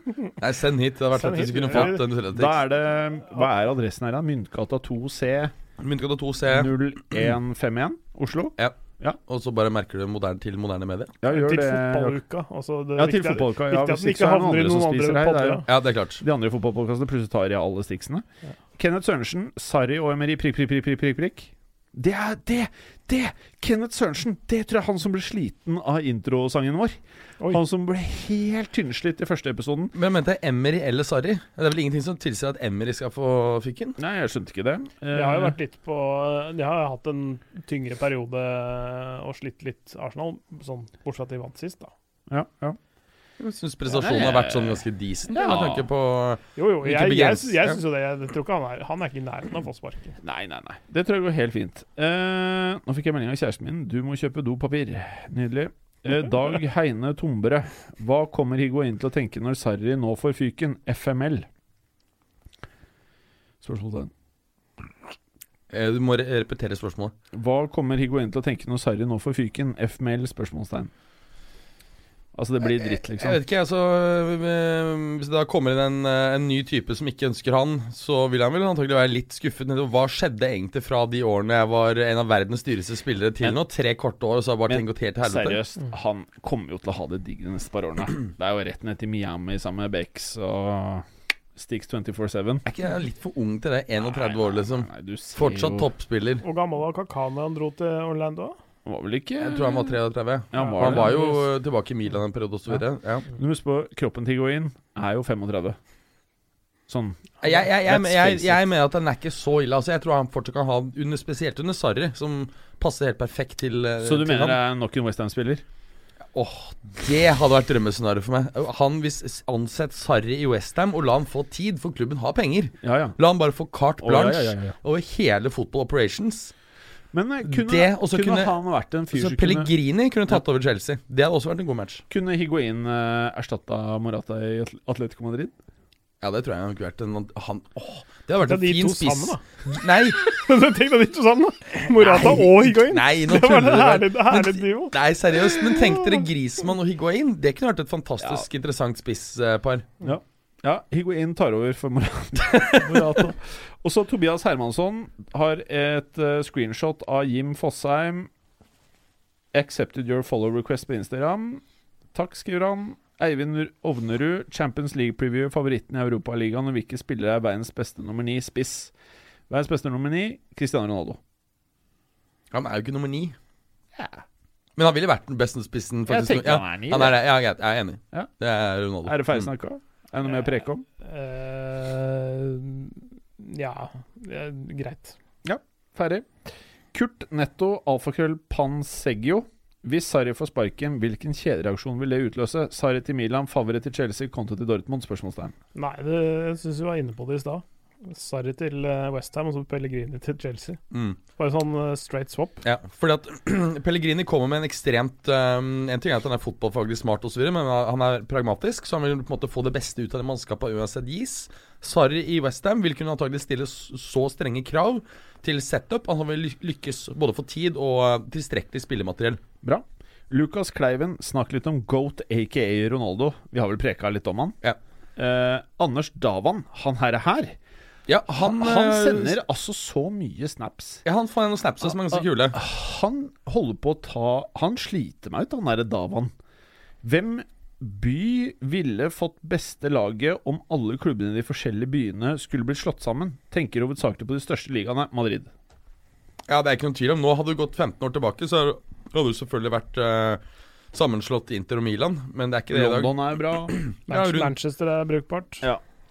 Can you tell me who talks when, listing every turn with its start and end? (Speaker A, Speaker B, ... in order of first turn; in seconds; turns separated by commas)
Speaker A: 0.4-2.6, Speaker B: 1.1-2.1, Speaker C: 1.7-5.5, Speaker A: 5.8-6.7, Speaker C: 6.5-9.2, Speaker A: 9.3-11.2, Speaker C: 11.2-12.2, Speaker B: 11.3-15.7, Speaker C: 12.9-15.7, Speaker A: 15.7-16.2, Speaker C: 16.2-18.2, Speaker C: 18.8-29.9, Speaker A: 29.9-34.0, Speaker C: 34.0-35.6, Speaker B: 35.1-41.9, Speaker C: 42.3-42.8, Speaker A: 43.4-47.8, Speaker C: 43.9-45.9, Speaker B: 46.6-50.1, Speaker C: 50.2-61.5, Speaker C: 63.6-64.1, Speaker A: 65.7-67.1, Speaker C: 67.3-70.9, Speaker C: 72.3-73.4, Speaker A: 72.6-85.6, Speaker C: 84.7-92.6, Speaker A: 92.7-96.4, Speaker C: 94.2-95.9, Speaker B: 96.4-98.6, Speaker C: 98.9-99.9, Speaker A: 99.4-103.3, Speaker C: 100.5-101.2, Speaker B: 100.5-101.4, Speaker C: 103.3-105.8, Speaker C: 106.9-108.6, Speaker A: 107.4-114.6, Speaker C: 114.0-115.6, Speaker A: 116.3-126.5, Speaker C: 122.8-123.2, Speaker C: 124.0-124.8, Speaker C: 127.1-129.7, Speaker A: 127.4-128.6, Speaker A: 129.1-132.0, Speaker C: 132.1-135.5, Speaker A: 136.2-140.4, Speaker B: 138.4-145.0, Speaker A: 141.9-149.9, Speaker B: 145.5-145.8, Speaker C: 148.2-148.5, Speaker C: 150.0-158.3, Speaker A: 152.4-153.1, Speaker B: 152.8-153.3, Speaker C: 159.5-161.6, Speaker C: 162.1-168.9, Speaker C: 169.5-171.2, Speaker A: 172.5-173.4, Speaker C: 173.9-174.2, Speaker A: 174.8-179.5, Speaker C: 176.1-177.2, Speaker C: 179.0-180.8, Speaker B: 181.0-185.2, Speaker C: 185.4-195.5, Speaker B: 195.7-200.8, Speaker A: 200.9-201.2, Speaker B: 201.4-202.6, Speaker A: 202.6-219.4, Speaker C: 219.6-224.6, Speaker C: 225.2-227.6, Speaker A: 228.1-229.4, Speaker C: 228.4-231.0, Speaker A: 231.1-232.6, Speaker C: 231.9-236.3, Speaker C: 237.0-245.5, Speaker A: 246.5-250.4, Speaker A: 250.9-254.5, Speaker C: 252.7-253.8, Speaker B: 254.1-255.7